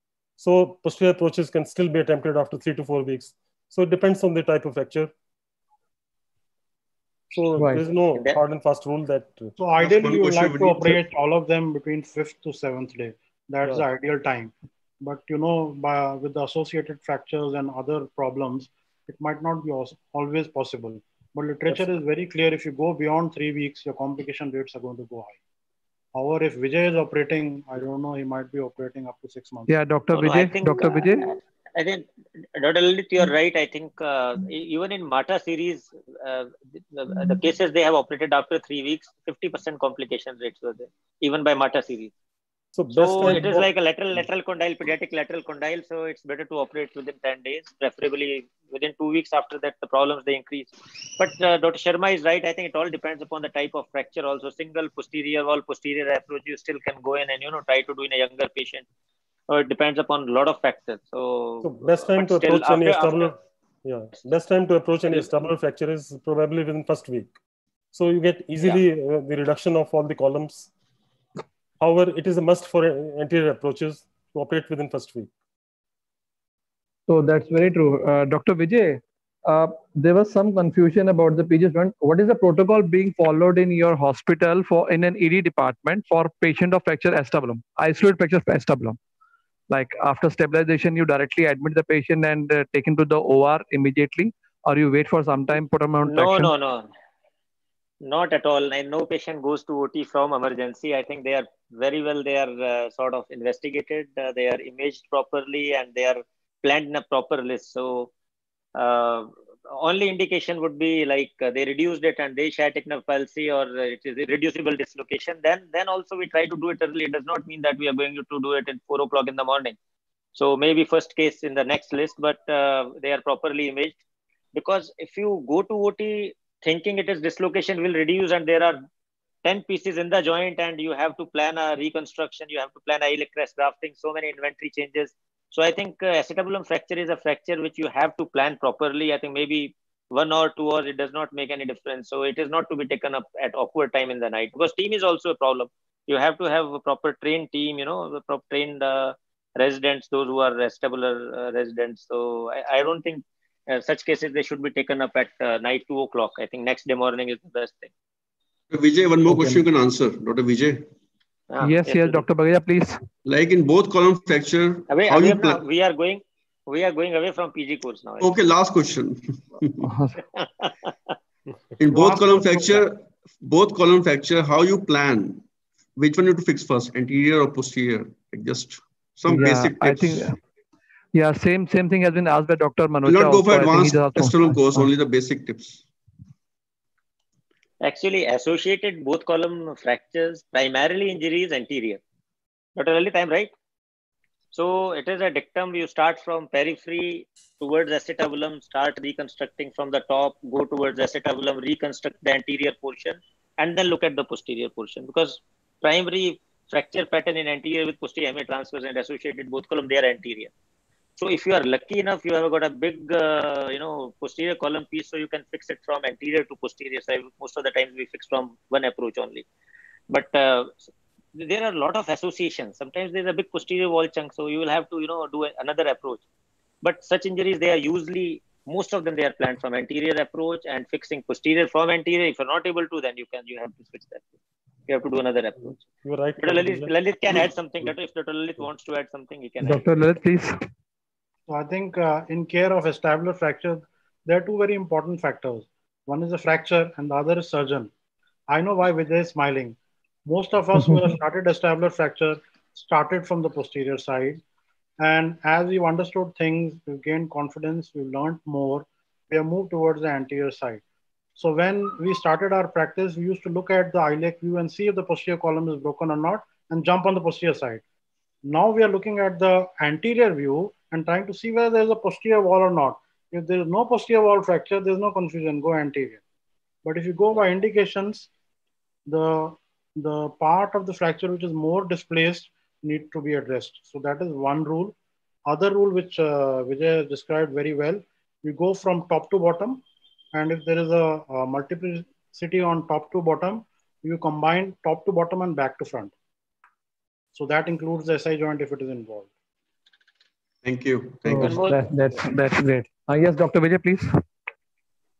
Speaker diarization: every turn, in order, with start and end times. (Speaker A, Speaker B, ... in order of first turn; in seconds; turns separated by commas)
Speaker A: 0.4-5.1, Speaker A: 7.3-11.0, Speaker B: 7.6-7.8, Speaker C: 8.1-8.4, Speaker D: 9.6-25.4, Speaker D: 26.1-29.7, Speaker B: 29.7-31.3, Speaker C: 30.1-42.1, Speaker A: 42.8-43.7, Speaker C: 42.9-58.9, Speaker C: 59.5-63.3, Speaker A: 61.6-67.3, Speaker A: 67.9-70.7, Speaker A: 71.8-75.3, Speaker B: 77.1-89.0, Speaker B: 89.7-96.5, Speaker C: 96.1-96.9, Speaker C: 98.0-108.1, Speaker C: 108.8-119.8, Speaker C: 120.3-124.0, Speaker C: 124.5-128.8, Speaker C: 129.4-157.9, Speaker E: 158.7-160.9, Speaker B: 159.3-159.6, Speaker C: 161.5-162.2, Speaker B: 161.6-163.0, Speaker E: 163.3-165.7, Speaker C: 164.9-168.3, Speaker E: 168.2-169.9, Speaker B: 169.8-170.2, Speaker C: 170.4-171.1, Speaker E: 171.8-175.4, Speaker D: 171.9-172.8, Speaker E: 176.0-180.3, Speaker B: 179.3-180.4, Speaker B: 181.1-184.9, Speaker E: 183.1-185.8, Speaker C: 187.8-192.0, Speaker C: 192.8-193.5, Speaker C: 194.5-210.5, Speaker C: 211.2-219.5, Speaker C: 220.1-226.2, Speaker C: 226.8-234.3, Speaker C: 234.9-235.8, Speaker A: 236.0-236.9, Speaker C: 236.4-239.9, Speaker B: 239.6-240.6, Speaker D: 241.5-247.9, Speaker D: 248.5-254.4, Speaker D: 255.0-260.8, Speaker D: 261.4-267.8, Speaker D: 268.5-276.2, Speaker D: 276.8-278.3, Speaker D: 279.1-289.8, Speaker D: 290.3-296.1, Speaker D: 297.3-299.3, Speaker E: 300.6-301.8, Speaker B: 301.3-304.1, Speaker C: 301.4-301.9